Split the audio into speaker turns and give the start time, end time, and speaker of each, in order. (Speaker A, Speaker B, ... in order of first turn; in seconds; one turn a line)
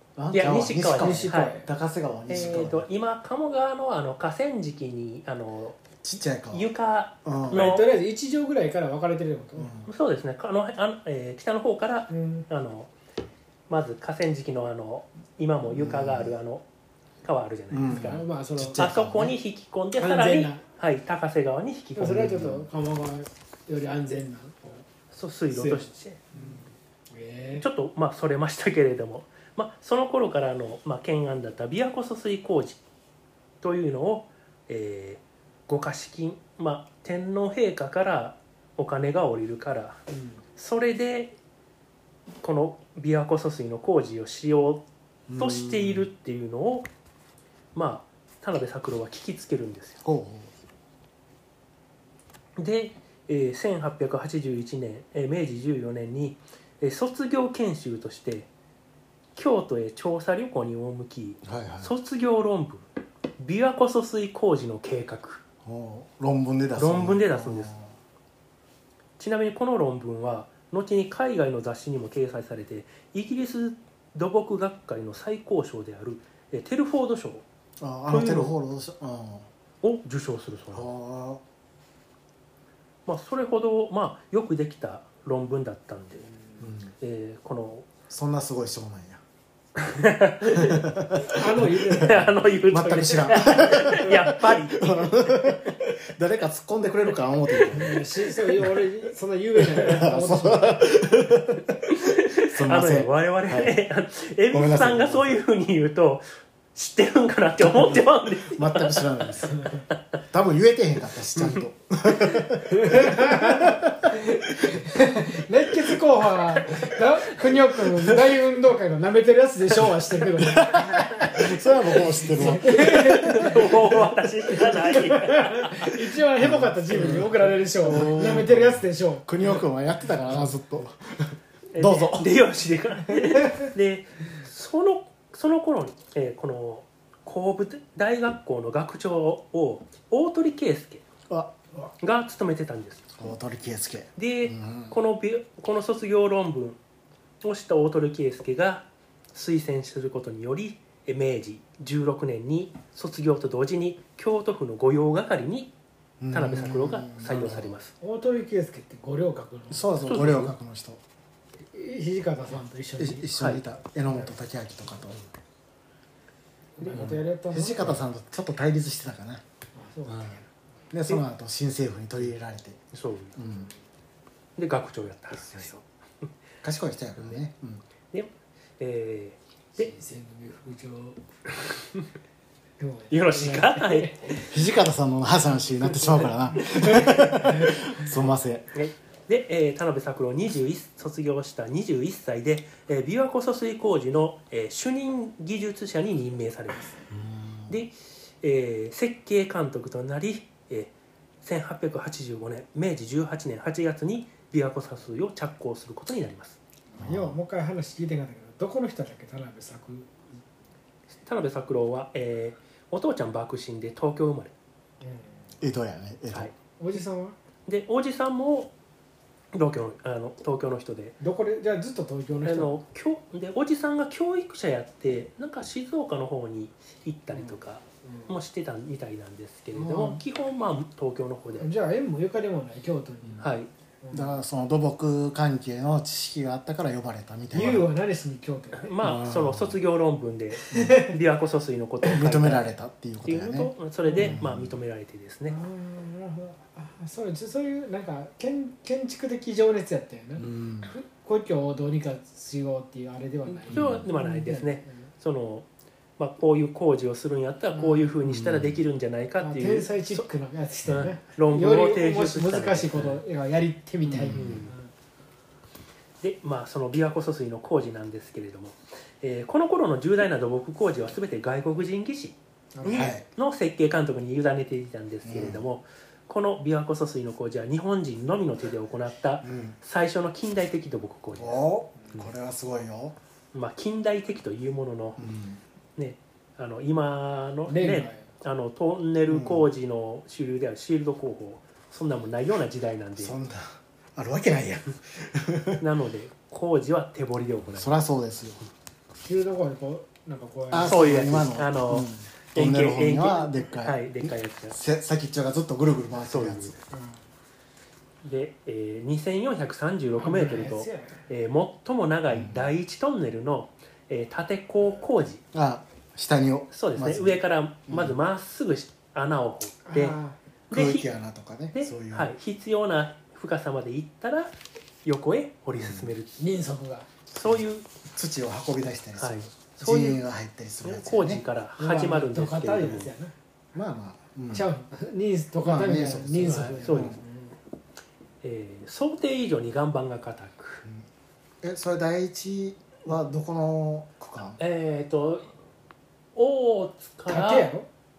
Speaker A: 0.2-2.9
Speaker B: 0.3-1.6
Speaker C: 0.4-1.7
Speaker B: 2.3-5.8
Speaker A: 6.0-6.7
Speaker B: 6.5-8.0
Speaker A: 7.2-7.7
Speaker C: 7.5-9.7
Speaker A: 9.6-9.9
Speaker B: 9.9-12.9
Speaker C: 12.1-12.5
Speaker B: 13.7-16.7
Speaker A: 15.7-16.4
Speaker B: 17.2-18.2
Speaker A: 17.7-19.3
Speaker C: 17.9-19.1
Speaker B: 18.8-22.4
Speaker C: 20.0-20.6
Speaker C: 22.0-24.9
Speaker A: 22.0-22.7
Speaker B: 25.1-26.2
Speaker C: 25.5-27.7
Speaker B: 27.6-32.8
Speaker B: 33.6-40.0
Speaker C: 40.1-40.4
Speaker B: 40.6-41.4
Speaker B: 42.4-44.8
Speaker A: 45.3-46.1
Speaker B: 45.4-46.9
Speaker B: 47.7-50.0
Speaker A: 50.0-50.5
Speaker B: 52.6-58.5
Speaker B: 59.4-62.9
Speaker A: 61.4-61.9
Speaker B: 63.4-65.4
Speaker A: 65.6-68.0
Speaker B: 66.8-67.8
Speaker B: 69.2-77.4
Speaker A: 77.8-79.5
Speaker B: 78.1-78.5
Speaker B: 79.8-80.9
Speaker A: 80.7-81.4
Speaker B: 83.1-86.3
Speaker A: 86.6-86.9
Speaker B: 87.0-87.9
Speaker A: 88.1-89.2
Speaker B: 89.8-90.9
Speaker A: 90.4-98.8
Speaker C: 91.3-92.3
Speaker B: 91.9-94.9
Speaker B: 97.5-98.0
Speaker C: 97.7-100.9
Speaker A: 99.6-101.8
Speaker B: 101.5-110.1
Speaker A: 102.4-103.8
Speaker A: 104.5-105.4
Speaker A: 107.6-109.6
Speaker C: 109.5-109.8
Speaker A: 110.3-114.9
Speaker C: 112.8-113.6
Speaker C: 114.2-121.0
Speaker A: 120.4-123.7
Speaker C: 122.0-123.7
Speaker B: 122.2-126.1
Speaker C: 124.7-129.3
Speaker A: 126.4-132.3
Speaker B: 127.9-128.2
Speaker B: 131.7-141.1
Speaker A: 141.3-141.8
Speaker B: 142.0-143.2
Speaker A: 143.2-145.0
Speaker B: 144.2-146.8
Speaker B: 147.4-155.7
Speaker A: 156.2-157.8
Speaker B: 156.3-157.9
Speaker C: 158.0-159.8
Speaker A: 159.7-161.0
Speaker B: 160.0-160.5
Speaker C: 161.7-163.3
Speaker A: 163.0-165.2
Speaker B: 163.4-163.6
Speaker C: 166.8-168.0
Speaker B: 166.8-167.1
Speaker A: 166.9-169.4
Speaker C: 169.8-170.5
Speaker A: 170.9-172.8
Speaker B: 172.9-173.4
Speaker A: 173.3-173.7
Speaker B: 174.6-176.3
Speaker A: 175.4-175.7
Speaker A: 176.6-177.8
Speaker B: 178.1-179.9
Speaker C: 179.8-181.2
Speaker B: 181.7-182.1
Speaker C: 182.8-184.4
Speaker B: 183.1-184.5
Speaker A: 184.4-188.7
Speaker B: 186.6-187.5
Speaker C: 187.3-188.2
Speaker B: 188.7-197.0
Speaker A: 197.1-197.8
Speaker B: 197.7-206.6
Speaker C: 206.9-210.1
Speaker A: 207.0-207.4
Speaker B: 211.2-214.5
Speaker C: 215.0-215.5
Speaker A: 215.6-216.5
Speaker C: 216.8-217.3
Speaker B: 217.7-218.7
Speaker B: 219.5-221.2
Speaker C: 221.2-222.8
Speaker B: 222.4-231.7
Speaker C: 228.1-228.3
Speaker C: 229.8-230.2
Speaker C: 231.6-233.5
Speaker B: 233.4-233.7
Speaker C: 234.0-234.4
Speaker A: 234.1-237.9
Speaker C: 237.5-238.9
Speaker B: 238.8-245.6
Speaker A: 239.0-239.8
Speaker C: 240.7-241.2
Speaker A: 240.7-241.0
Speaker A: 242.0-244.8
Speaker C: 244.1-244.4
Speaker C: 245.5-255.0
Speaker A: 250.4-250.9
Speaker B: 253.5-255.7
Speaker A: 253.7-254.1
Speaker B: 256.2-260.3
Speaker A: 258.2-258.8
Speaker C: 259.4-264.9
Speaker B: 260.9-263.2
Speaker A: 264.0-264.7
Speaker B: 264.3-264.7
Speaker B: 266.2-282.2
Speaker C: 272.8-273.1
Speaker A: 272.9-273.2
Speaker A: 275.2-275.6
Speaker A: 279.4-279.8
Speaker A: 281.4-283.2
Speaker B: 283.5-285.2
Speaker A: 285.2-285.6
Speaker B: 286.0-293.4
Speaker C: 287.7-288.3
Speaker A: 289.3-289.7
Speaker A: 293.2-295.8
Speaker B: 295.8-297.9
Speaker A: 297.8-298.6
Speaker C: 299.2-301.3
Speaker A: 300.7-306.8
Speaker B: 300.9-304.8
Speaker B: 306.3-306.8
Speaker C: 306.9-307.2
Speaker B: 308.2-315.4
Speaker C: 310.2-311.2
Speaker A: 312.3-312.7
Speaker A: 315.5-318.2
Speaker B: 316.7-320.2
Speaker C: 319.9-320.4
Speaker B: 320.7-321.1
Speaker A: 320.7-322.3
Speaker B: 321.7-326.4
Speaker A: 325.8-326.1
Speaker C: 326.4-327.1
Speaker B: 327.3-327.9
Speaker A: 328.1-331.4
Speaker B: 329.2-330.2
Speaker B: 330.8-333.1
Speaker C: 331.8-333.3
Speaker A: 333.7-334.7
Speaker C: 334.5-337.6
Speaker A: 335.6-337.2
Speaker B: 336.5-337.2
Speaker B: 338.4-340.9
Speaker A: 341.6-344.6
Speaker B: 344.6-345.5
Speaker B: 346.4-347.7
Speaker C: 347.3-347.9